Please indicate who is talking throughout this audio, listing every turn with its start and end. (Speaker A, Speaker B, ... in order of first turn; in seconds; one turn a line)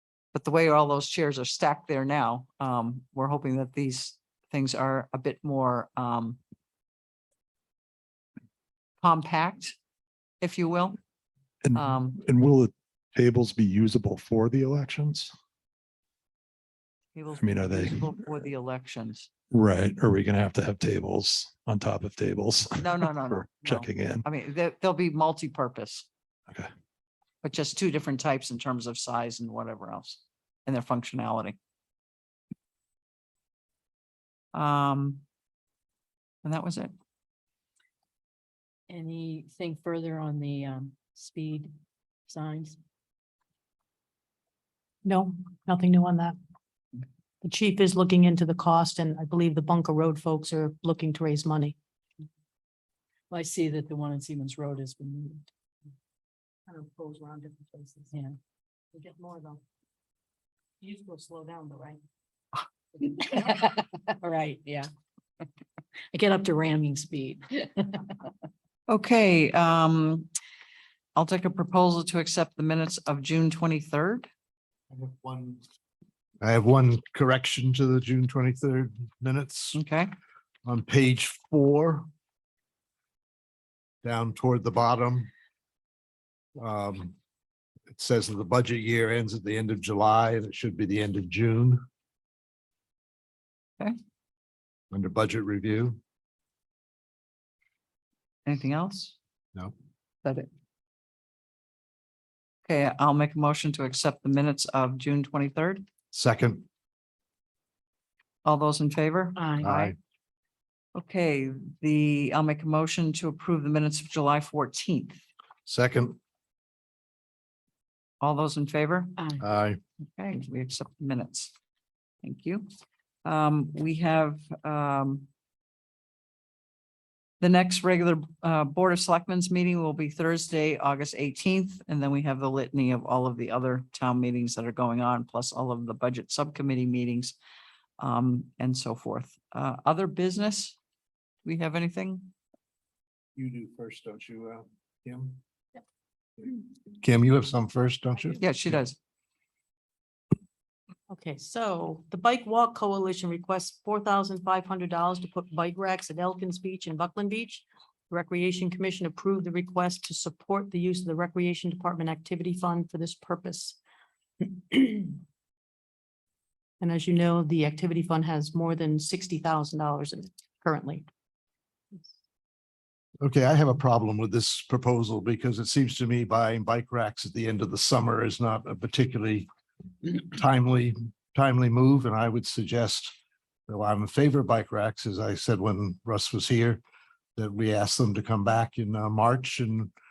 Speaker A: 0.3-6.4
Speaker A: 9.0-9.8
Speaker A: 10.4-11.0
Speaker B: 11.6-15.3
Speaker A: 11.7-12.2
Speaker A: 17.1-19.3
Speaker B: 17.4-18.1
Speaker B: 19.5-24.2
Speaker A: 22.8-26.1
Speaker A: 27.4-31.6
Speaker A: 34.5-35.2
Speaker A: 36.4-36.9
Speaker C: 38.9-41.7
Speaker C: 42.3-42.8
Speaker D: 45.0-46.4
Speaker D: 47.4-51.8
Speaker C: 53.3-55.5
Speaker D: 56.7-58.1
Speaker D: 58.9-59.6
Speaker D: 60.8-62.0
Speaker C: 64.2-64.9
Speaker C: 66.1-67.4
Speaker A: 68.9-70.3
Speaker A: 71.1-74.3
Speaker E: 74.9-75.6
Speaker E: 76.4-79.8
Speaker A: 79.7-80.1
Speaker E: 80.6-82.1
Speaker E: 84.0-85.3
Speaker E: 86.5-87.1
Speaker E: 87.9-91.8
Speaker E: 94.9-96.0
Speaker A: 98.5-99.2
Speaker A: 100.2-100.5
Speaker A: 102.6-105.9
Speaker E: 106.1-106.7
Speaker A: 108.4-109.5
Speaker C: 109.4-109.9
Speaker E: 109.6-110.0
Speaker A: 110.9-115.2
Speaker E: 115.7-116.2
Speaker A: 118.2-119.2
Speaker C: 119.2-119.4
Speaker E: 119.4-119.8
Speaker A: 120.0-121.5
Speaker A: 122.2-122.7
Speaker A: 123.2-125.3
Speaker A: 127.4-137.3
Speaker A: 138.0-140.8
Speaker A: 141.4-142.3
Speaker E: 143.3-145.4
Speaker E: 146.4-148.4
Speaker A: 148.3-149.0
Speaker D: 151.1-163.8
Speaker D: 164.4-165.2
Speaker D: 166.8-171.1
Speaker E: 173.2-179.5
Speaker E: 180.0-183.2
Speaker E: 183.7-186.8
Speaker E: 187.3-189.9